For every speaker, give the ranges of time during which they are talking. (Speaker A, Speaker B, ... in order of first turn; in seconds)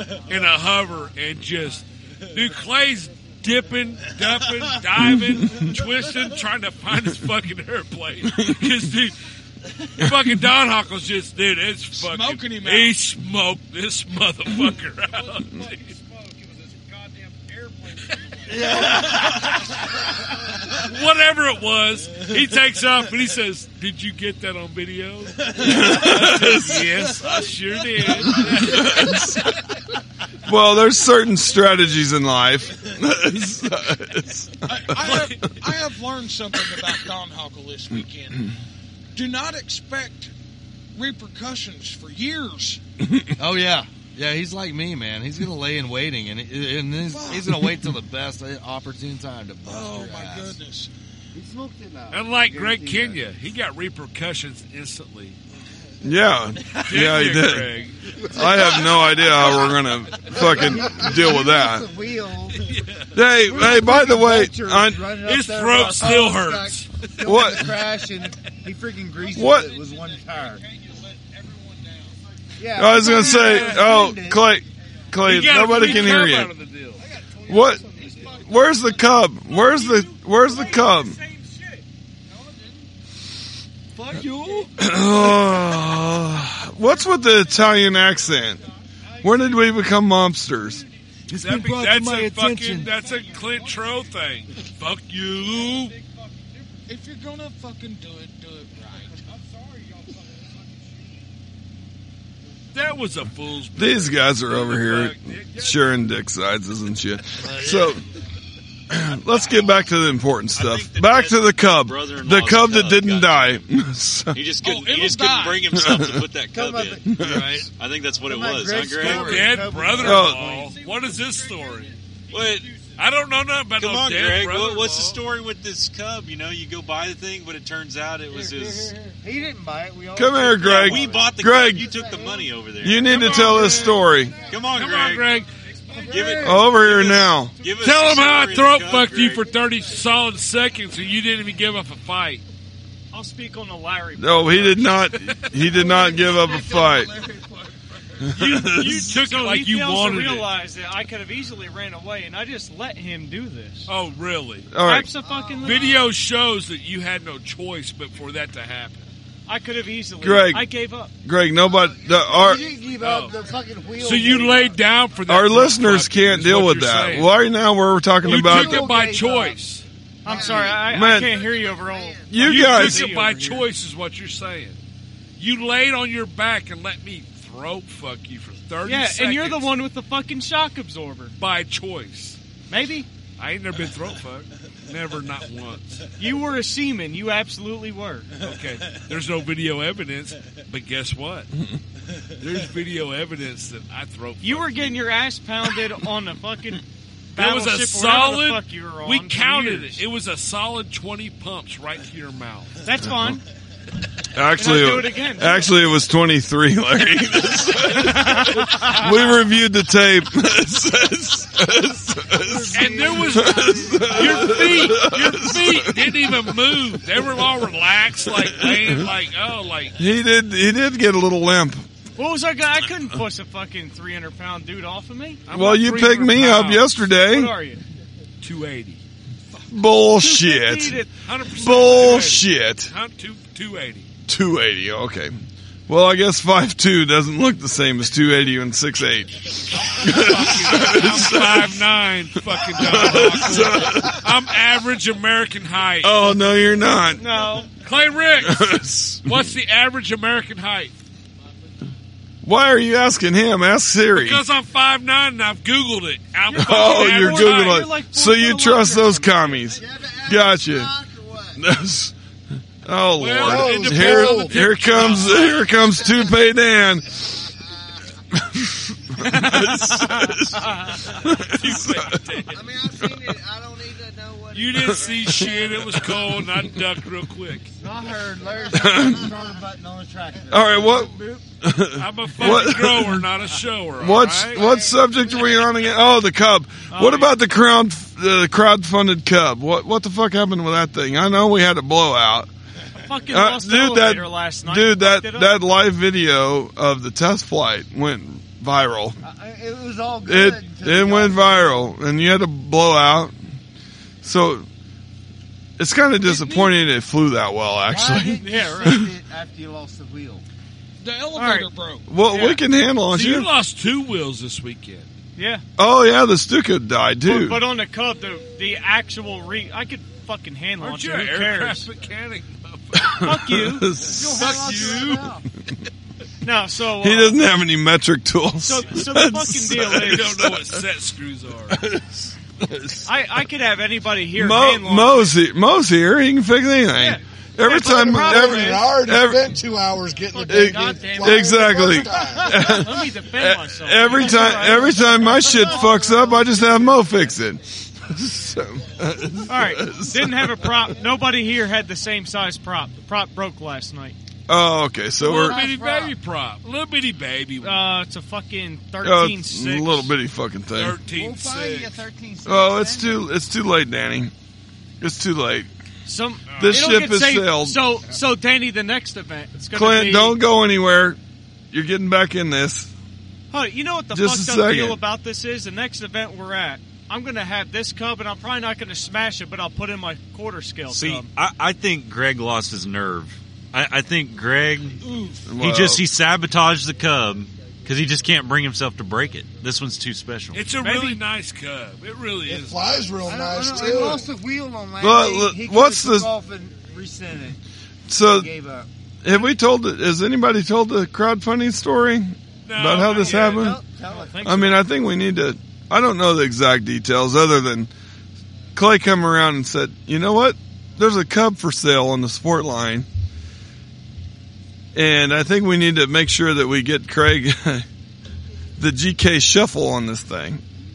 Speaker A: 0.2-9.2, 10.0-15.8, 20.7-29.2, 35.0-35.5, 52.1-55.4, 56.8-58.5, 59.0-60.3, 62.5-63.1, 65.2-67.1, 73.1-74.0, 75.2-77.0, 84.0-84.7, 91.3-96.0, 102.7-105.8, 119.0-121.9, 123.0-125.2, 133.1-133.9, 134.7-135.5, 137.8-142.4, 148.4-150.5, 153.9-154.7, 155.6-159.1, 163.0-163.3, 164.0-167.3, 168.2-169.8, 172.4-174.8, 175.4-179.8, 181.4-182.4, 183.4-186.1, 188.4-191.5, 192.4-194.9, 197.3-202.8, 212.7-219.9, 225.5-226.8, 228.4-229.0, 231.2-234.1, 239.9-246.4, 247.8-250.9, 254.1-257.8, 263.1-265.8, 271.5-272.7, 274.5-277.7, 282.0-284.6, 313.1-315.1, 320.8-323.2, 324.1-325.3, 330.0-331.8, 355.2-357.8, 360.7-362.0, 366.5-367.0, 390.5-393.1, 402.6-403.7
Speaker B: 5.0-5.7, 8.4-8.6, 25.6-27.0, 28.3-29.4, 30.4-34.5, 56.0-61.8, 63.1-65.1, 67.2-67.8, 69.3-69.8, 72.7-76.5, 77.5-81.2, 84.8-88.6, 89.2-90.8, 103.8-108.0, 108.9-114.4, 115.7-116.2, 117.0-117.6, 120.0-120.7, 130.1-131.9, 132.8-134.4, 136.4-137.6, 144.2-147.2, 148.3-149.1, 154.7-155.1, 160.2-160.7, 161.2-162.7, 165.2-168.9, 170.4-171.4, 172.2-173.1, 204.3-217.0, 218.4-219.1, 220.0-221.8, 225.5-227.5, 229.7-232.9, 234.3-235.3, 235.9-239.4, 240.0-241.9, 242.5-244.5, 246.0-247.3, 248.4-249.5, 252.4-254.4, 256.5-260.9, 261.6-262.1, 262.8-267.4, 268.5-272.2, 274.8-276.8, 278.7-279.3, 280.5-283.3, 284.0-292.5, 293.3-299.2, 300.2-303.3, 304.2-304.6, 305.8-309.1, 312.1-313.5, 315.8-317.6, 323.6-324.4, 327.0-330.8, 331.7-332.1, 332.6-333.0, 334.3-339.5, 340.4-350.7, 354.5-355.6, 359.0-361.0, 362.4-364.3, 365.0-365.7, 366.6-367.8, 369.7-371.2, 371.7-372.9, 374.1-375.0, 385.5-386.1, 395.0-396.3, 398.1-398.5, 399.2-403.8, 404.4-407.9, 408.7-413.1, 414.9-417.8, 418.8-420.6
Speaker C: 11.9-13.0, 16.8-17.9, 18.6-18.9, 34.6-38.5, 39.1-40.3, 40.9-42.8, 47.1-47.5, 49.6-50.9, 71.3-72.0, 78.0-78.3, 96.9-99.3, 114.6-115.7, 311.0-312.1, 385.0-385.4
Speaker D: 18.5-19.6, 43.4-50.5, 91.3-92.9, 107.4-108.0, 117.2-117.7
Speaker E: 51.3-53.3, 58.5-58.9, 60.2-62.6, 63.4-70.6, 72.6-74.5, 116.5-117.0, 118.2-120.8, 128.3-132.5, 133.2-134.6, 135.9-136.7, 145.7-147.6, 155.2-156.1, 161.6-164.8, 168.2-169.6, 170.2-172.4, 212.3-215.0, 259.7-261.6, 272.4-276.4, 277.8-281.4, 284.4-285.6, 299.2-301.9, 307.9-310.4, 324.1-325.4, 340.9-341.9, 344.2-344.6, 345.2-347.2, 355.2-356.1, 361.0-363.3, 393.2-397.6, 398.2-398.9, 403.2-404.6
Speaker F: 110.5-113.6, 114.3-117.0, 117.8-119.6, 122.3-122.7, 123.8-129.1, 130.5-133.7, 134.4-135.4, 136.0-139.5, 380.9-385.0, 385.6-390.6
Speaker G: 143.1-145.1, 148.4-153.9, 154.8-155.9, 159.5-161.1, 170.2-173.7, 178.8-181.3, 182.7-183.1, 186.2-188.3, 194.4-196.8, 197.3-200.0, 202.8-203.4, 204.6-205.7, 208.0-209.1, 222.2-227.8, 230.1-231.1, 247.2-247.7, 256.5-259.6, 269.3-270.3, 286.9-287.3, 293.0-295.6, 308.4-308.9, 311.3-311.7, 315.4-315.6, 317.2-321.9, 323.2-323.9, 326.4-327.4, 328.6-330.4, 333.1-335.3, 337.0-339.0, 340.3-345.9, 349.5-354.1, 357.6-360.1, 366.0-370.4, 373.5-381.3, 390.8-391.2, 404.2-404.8
Speaker H: 263.4-264.6, 337.8-342.4, 392.4-394.3